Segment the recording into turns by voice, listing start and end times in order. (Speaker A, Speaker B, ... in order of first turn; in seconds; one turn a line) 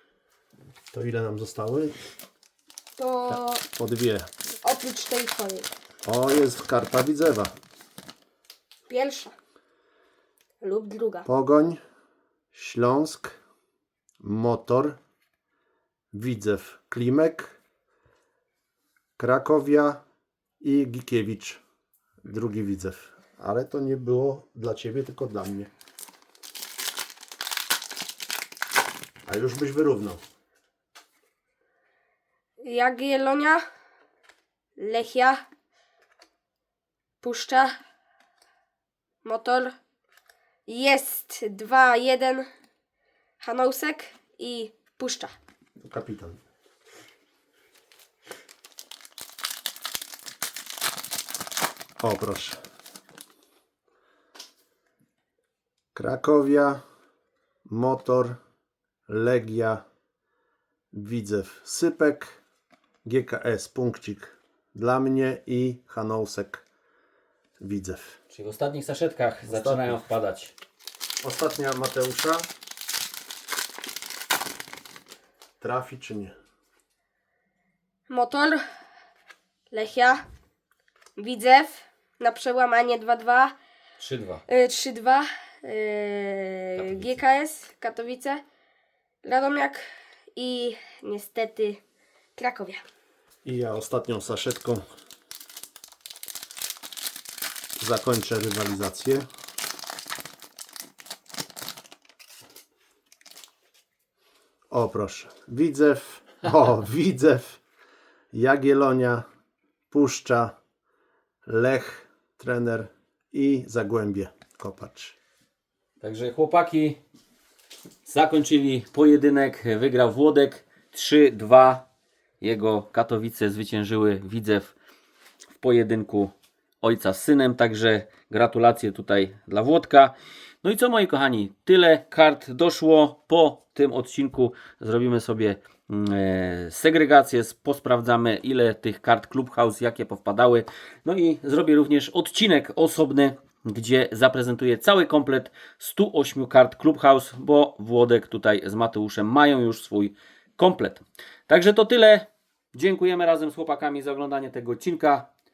Speaker A: 0.9-2.0
Speaker B: 3.0-3.7
Speaker A: 3.3-4.3
Speaker B: 4.6-5.7
Speaker A: 6.0-7.5
Speaker B: 8.9-9.3
Speaker B: 10.6-11.3
Speaker A: 11.2-11.8
Speaker A: 12.5-13.4
Speaker A: 14.2-15.0
Speaker A: 16.1-17.6
Speaker A: 19.2-20.0
Speaker A: 20.6-21.6
Speaker A: 22.2-25.7
Speaker A: 29.3-30.2
Speaker B: 32.6-33.6
Speaker B: 34.8-35.5
Speaker B: 37.2-37.7
Speaker B: 39.2-39.7
Speaker B: 40.7-42.5
Speaker B: 43.4-45.4
Speaker A: 45.8-46.4
Speaker A: 52.0-52.6
Speaker A: 55.9-56.8
Speaker A: 57.7-58.4
Speaker A: 59.1-59.8
Speaker A: 60.9-62.4
Speaker A: 63.0-66.6
Speaker A: 67.6-68.2
Speaker C: 68.3-70.5
Speaker A: 69.5-70.0
Speaker A: 71.2-72.5
Speaker A: 75.6-76.3
Speaker B: 78.1-78.6
Speaker B: 79.7-80.3
Speaker B: 81.2-83.5
Speaker C: 84.0-84.4
Speaker B: 84.5-88.4
Speaker C: 86.8-87.2
Speaker B: 89.2-89.8
Speaker B: 90.4-91.8
Speaker B: 92.4-92.8
Speaker A: 93.5-94.8
Speaker A: 97.8-99.3
Speaker A: 104.7-107.6
Speaker A: 108.3-109.2
Speaker A: 109.9-110.5
Speaker A: 111.5-115.2
Speaker C: 116.0-117.0
Speaker C: 118.1-121.8
Speaker C: 122.4-124.7
Speaker C: 125.5-155.3